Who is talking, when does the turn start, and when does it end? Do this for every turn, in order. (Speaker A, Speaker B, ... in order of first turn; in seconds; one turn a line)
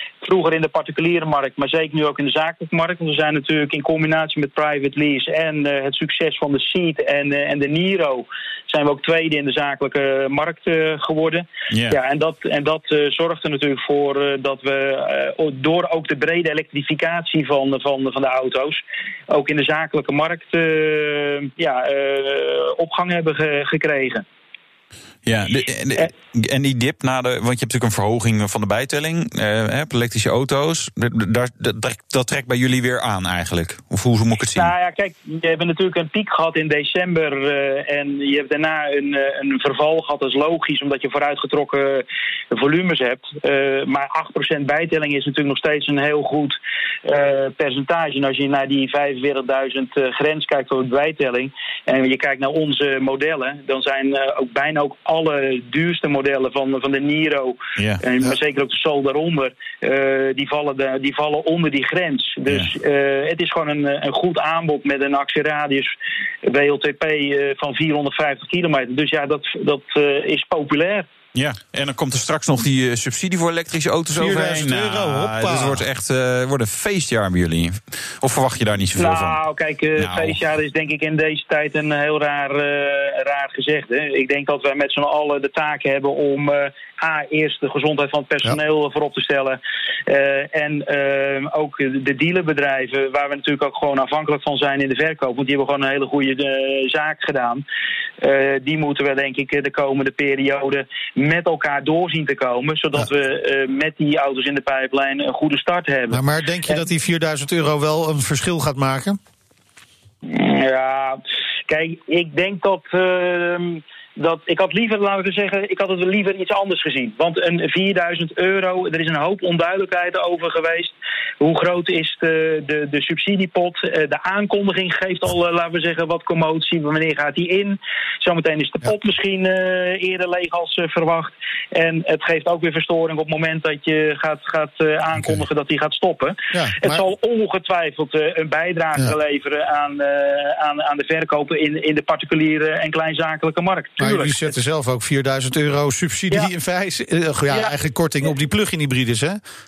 Speaker A: 0.2-24.2
Speaker B: 11.7-12.0
Speaker B: 25.3-34.7
Speaker A: 34.5-65.9
Speaker B: 57.8-58.0
Speaker A: 66.5-71.1
Speaker B: 71.3-79.4
Speaker C: 74.1-75.8
Speaker A: 79.0-97.6
Speaker B: 80.0-80.4
Speaker A: 98.2-106.8
Speaker C: 106.1-109.2
Speaker A: 110.3-144.5
Speaker C: 136.5-137.0
Speaker C: 144.0-149.4
Speaker A: 147.5-147.7